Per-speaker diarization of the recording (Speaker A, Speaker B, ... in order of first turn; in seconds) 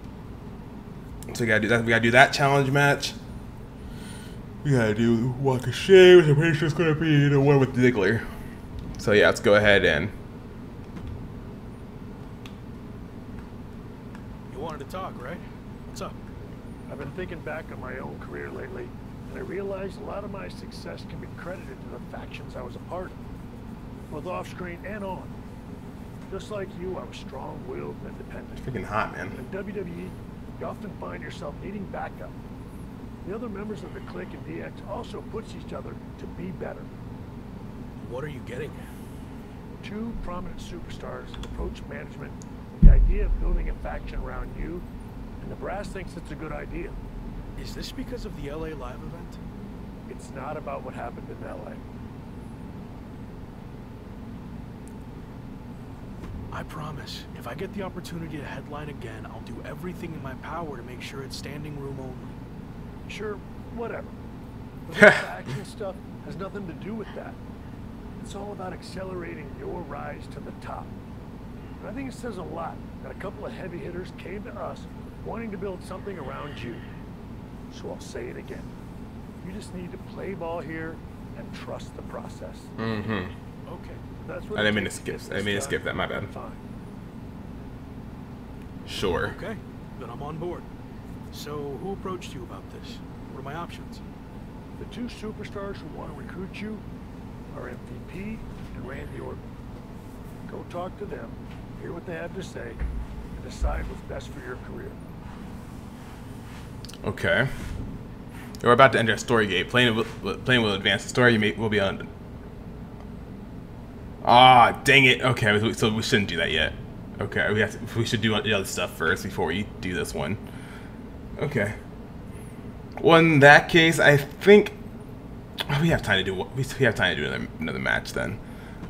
Speaker A: 1.3-3.2, 4.6-8.2, 8.9-10.1, 28.6-29.4, 64.9-65.2, 82.8-83.3, 84.5-86.3, 88.8-89.4, 107.0-107.5, 108.6-112.1, 114.2-120.4, 121.4-121.8, 123.0-124.8, 125.7-128.4
Speaker B: 14.5-16.1, 38.0-38.8, 47.6-49.4, 56.5-62.4, 83.7-84.0, 89.2-90.7, 91.3-94.0
Speaker C: 16.9-23.2, 24.1-25.3, 26.3-28.7, 29.3-32.3, 33.2-36.9, 39.8-44.8, 45.4-47.0, 50.1-51.8, 63.1-64.1, 64.8-67.4, 68.2-70.9, 71.8-76.8, 77.7-78.7, 79.4-82.7, 84.2-86.6, 94.8-96.8, 97.5-99.4, 100.5-102.8, 103.3-105.0